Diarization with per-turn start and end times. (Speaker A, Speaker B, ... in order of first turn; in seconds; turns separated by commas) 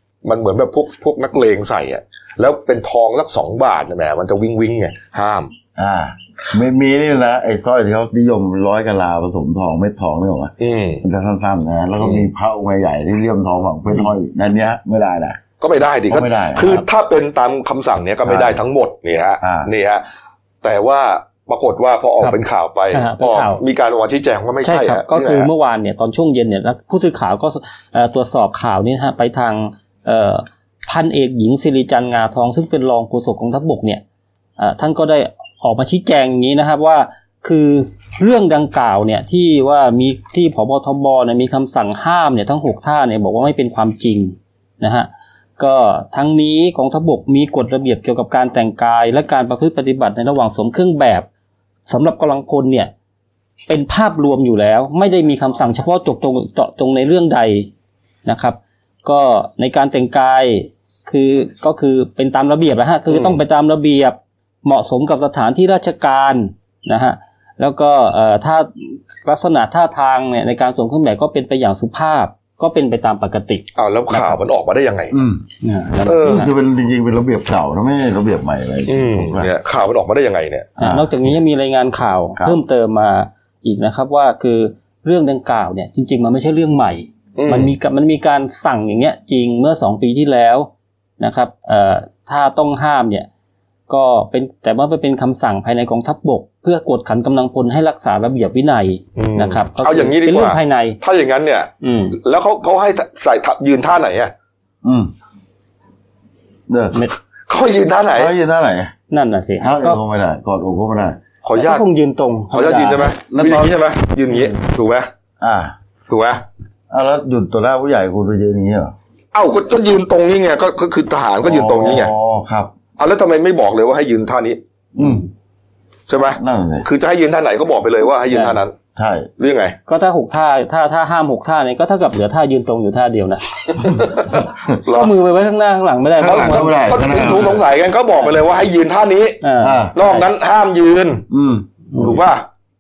Speaker A: 0.2-5.5, Speaker B: 5.8-15.4, Speaker A: 10.6-11.0, Speaker A: 12.0-12.3, Speaker A: 15.6-20.0, Speaker B: 16.1-16.8, Speaker B: 18.2-18.6, Speaker B: 19.4-19.7, Speaker A: 20.6-25.5, Speaker C: 22.9-23.6, Speaker C: 24.6-34.0, Speaker C: 34.6-51.3, Speaker C: 51.9-52.9, Speaker C: 53.7-57.7, Speaker C: 58.2-74.3, Speaker A: 63.1-63.4, Speaker A: 73.8-75.1, Speaker B: 75.1-75.4, Speaker C: 75.6-76.5, Speaker A: 76.0-76.5, Speaker B: 76.1-79.5, Speaker A: 78.9-80.7, Speaker C: 80.8-93.3, Speaker B: 80.8-81.1, Speaker A: 87.3-87.7, Speaker C: 93.9-101.0, Speaker A: 99.2-104.3, Speaker C: 101.8-102.2, Speaker B: 104.8-105.1, Speaker B: 106.7-107.0, Speaker A: 107.5-108.3, Speaker B: 108.1-108.9, Speaker C: 109.1-110.0, Speaker B: 109.6-111.2, Speaker A: 111.4-111.8, Speaker C: 111.5-113.2, Speaker A: 112.5-115.1, Speaker B: 113.3-113.7, Speaker B: 115.4-115.7, Speaker A: 116.1-116.4, Speaker B: 116.9-118.9, Speaker A: 119.3-122.1, Speaker B: 121.4-122.7, Speaker A: 123.0-124.6, Speaker B: 125.0-125.2, Speaker A: 126.1-128.8, Speaker B: 126.3-126.8, Speaker C: 128.3-128.6, Speaker B: 128.9-129.3, Speaker A: 129.4-129.8, Speaker C: 129.9-136.8, Speaker A: 134.0-135.1, Speaker B: 136.2-137.6, Speaker A: 136.2-139.4, Speaker C: 139.4-140.3, Speaker B: 139.6-139.9, Speaker A: 139.9-141.2, Speaker B: 141.3-142.2, Speaker A: 142.0-142.4